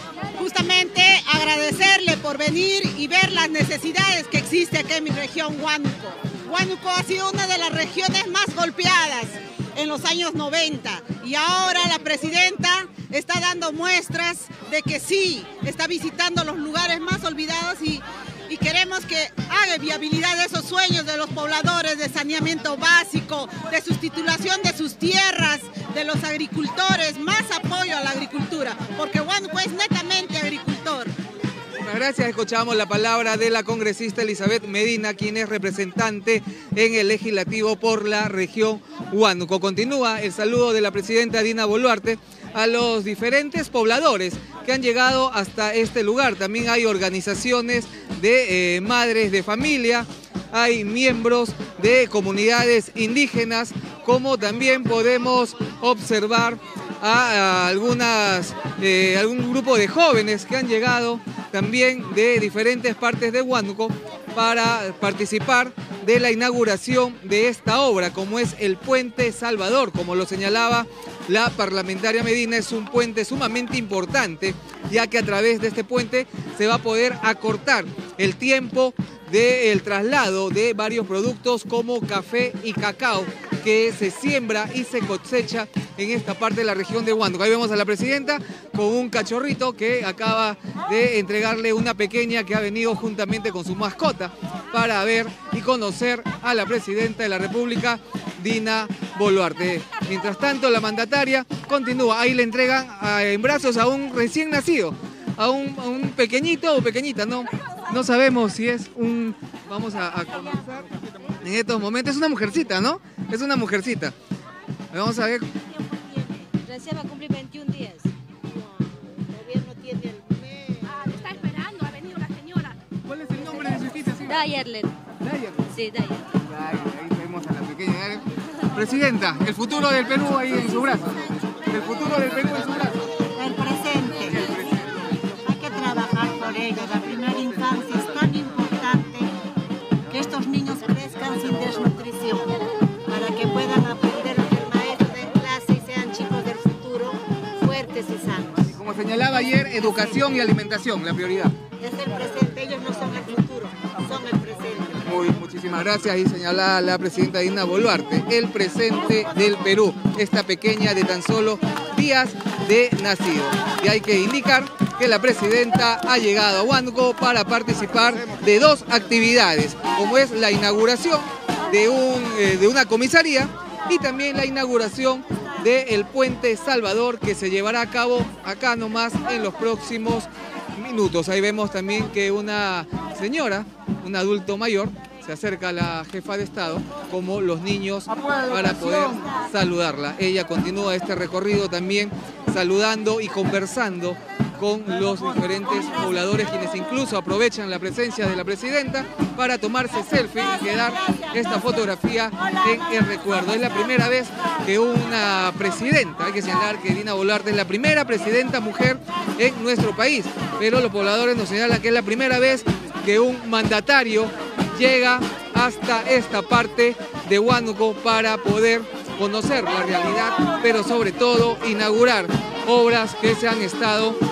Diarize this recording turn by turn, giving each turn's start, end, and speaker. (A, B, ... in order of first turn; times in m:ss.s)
0:00.3-0:31.1 A
0:31.8-1:50.6 B
1:51.4-1:54.2 B
1:54.9-1:55.5 B
1:56.1-1:56.5 C
1:56.7-1:58.0 D
1:59.3-2:00.9 C
2:01.0-2:02.8 D
2:03.1-2:04.4 B
2:04.2-2:04.9 D
2:05.2-2:05.7 B
2:05.8-2:06.2 D
2:06.4-2:08.2 B
2:08.7-2:11.2 B
2:11.7-2:13.0 B
2:13.3-2:14.5 C
2:14.3-2:15.0 B
2:15.4-2:19.3 C
2:20.1-2:22.5 C
2:23.1-2:28.8 C
2:28.7-2:31.5 B
2:31.8-2:35.0 C
2:35.0-3:44.2 B